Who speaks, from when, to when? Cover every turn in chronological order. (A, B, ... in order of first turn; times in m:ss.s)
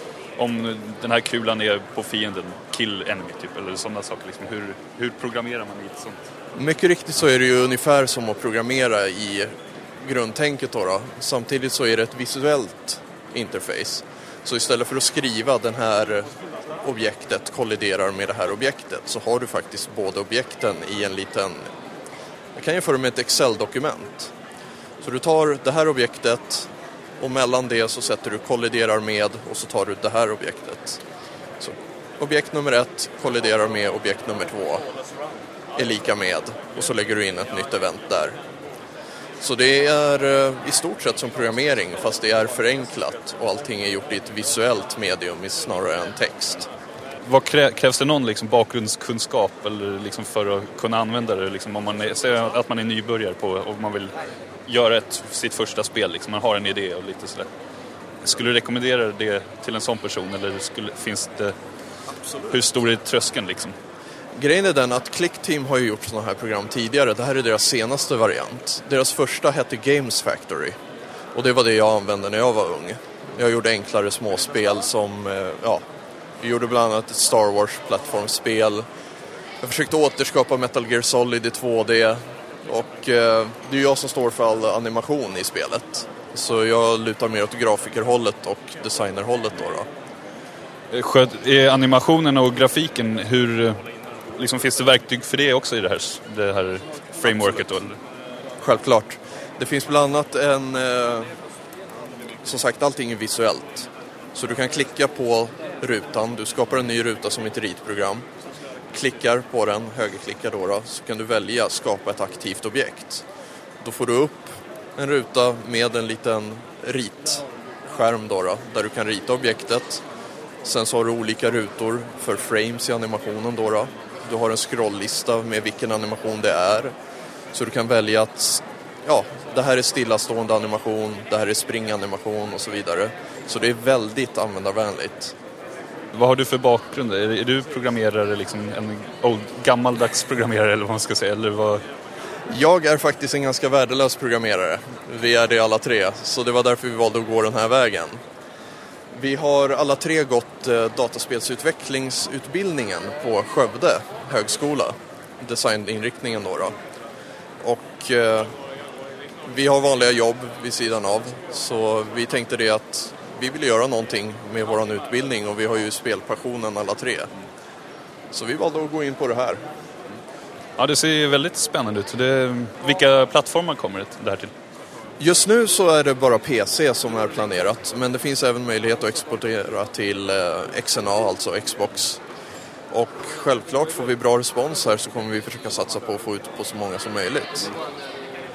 0:00.4-0:06.2 A
0:06.6-0:16.3 B
0:16.8-0:21.7 B
0:22.5-0:24.3 B
0:25.0-0:26.7 B
0:27.2-0:31.0 B
0:31.6-0:34.9 B
0:35.8-0:38.4 B
0:39.4-0:46.7 B
0:47.2-0:54.1 A
0:54.6-0:57.5 A
0:58.2-1:01.5 A
1:02.5-1:03.8 A
1:04.3-1:10.8 B
1:11.3-1:15.8 B
1:16.4-1:18.8 B
1:19.6-1:29.9 B
1:30.9-1:33.8 A
1:34.4-1:38.0 A
1:38.6-1:41.3 B
1:42.4-1:48.2 B
1:48.9-1:53.2 B
1:53.8-2:00.0 B
2:00.6-2:06.9 B
2:07.5-2:15.3 B
2:16.1-2:21.8 A
2:22.5-2:28.2 B
2:29.1-2:36.8 B
2:37.6-2:38.5 B
2:39.4-2:47.3 B
2:48.3-2:49.6 B
2:50.8-2:54.5 A
2:55.2-3:02.2 B
3:02.9-3:07.7 B